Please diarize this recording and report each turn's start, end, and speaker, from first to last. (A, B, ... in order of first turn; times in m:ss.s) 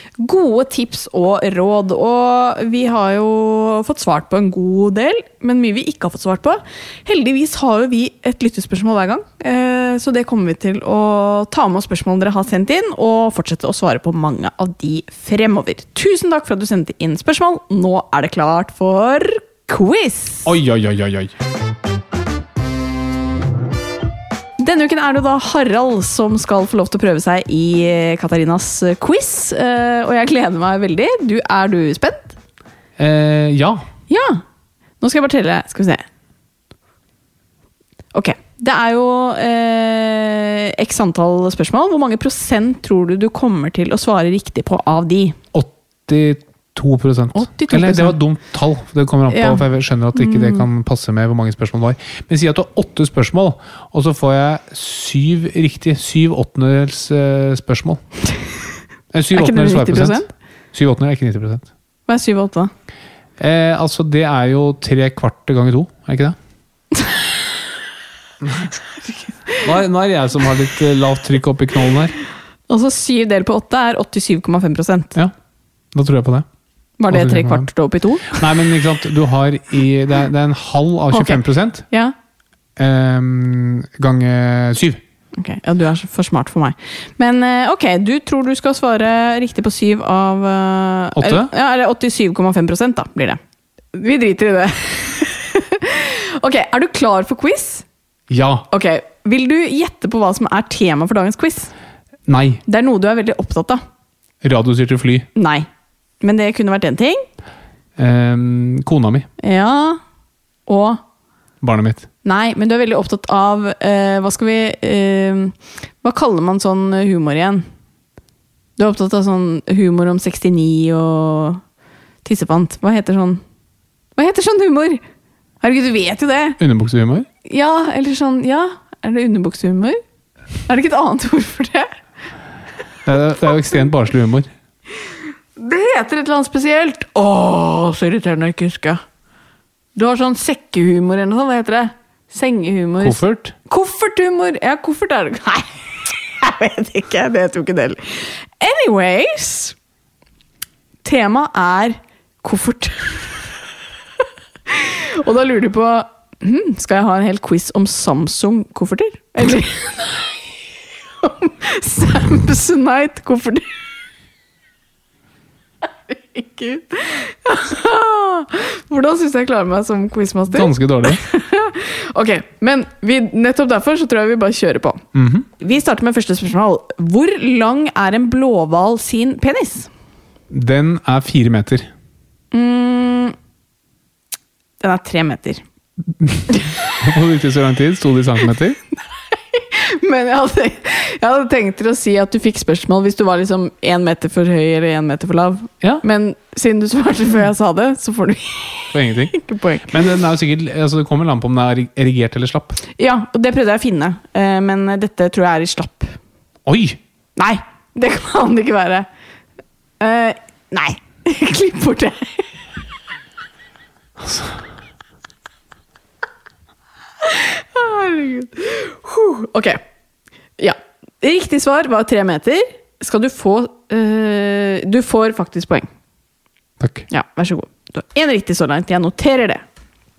0:00.2-0:20.5 A
0:20.4-0:21.3 B
0:24.6-0:32.3 A
0:33.0-0:33.8 B
0:34.1-0:34.4 A
0:35.0-0:36.0 A
0:38.1-0:45.4 A
0:45.5-0:58.0 B
0:47.3-0:48.2 A
0:49.3-0:49.6 A
0:50.1-0:50.6 A
0:59.1-1:00.2 B
0:59.3-1:00.3 A
1:00.7-1:01.7 B
1:02.1-1:02.7 A
1:03.4-1:06.4 B
1:08.4-1:08.7 B
1:09.6-1:12.2 B
1:12.7-1:15.1 A
1:15.9-1:16.4 B
1:17.0-1:18.4 A
1:17.1-1:17.7 B
1:18.3-1:21.8 B
1:21.1-1:22.1 A
1:22.8-1:25.0 B
1:25.3-1:33.4 A
1:31.2-1:31.5 B
1:33.9-1:37.8 A
1:38.3-1:38.6 B
1:38.7-1:41.7 A
1:42.3-1:42.6 B
1:42.7-1:43.8 A
1:44.4-1:45.3 B
1:45.3-1:45.7 A
1:46.2-1:47.2 A
1:48.0-1:49.3 B
1:49.4-1:50.0 A
1:50.6-1:51.0 A
1:51.6-1:52.1 B
1:52.2-1:57.6 A
1:58.8-2:01.6 A
2:02.2-2:03.4 A
2:04.2-2:05.0 A
2:05.6-2:06.6 A
2:06.6-2:07.3 B
2:07.4-2:10.0 A
2:10.6-2:11.9 A
2:13.0-2:14.5 B
2:15.6-2:19.0 A
2:19.9-2:29.8 A
2:23.0-2:23.5 B
2:31.0-2:33.3 A
2:34.7-2:40.3 A
2:41.2-2:43.7 A
2:46.1-2:55.0 A
2:50.5-2:51.2 B
2:55.1-2:55.5 B
2:55.6-2:59.9 A
3:00.5-3:01.9 B
3:02.5-3:03.3 A
3:04.8-3:05.6 A
3:06.2-3:08.8 B
3:09.5-3:19.9 A
3:18.9-3:19.3 B
3:19.9-3:22.8 B
3:23.0-3:26.2 A
3:26.6-3:27.0 B
3:27.4-3:29.1 A
3:30.0-3:32.5 A
3:34.2-3:34.6 B
3:37.2-3:39.8 A
3:40.6-3:45.9 A
3:46.8-3:47.0 B
3:47.1-3:49.6 A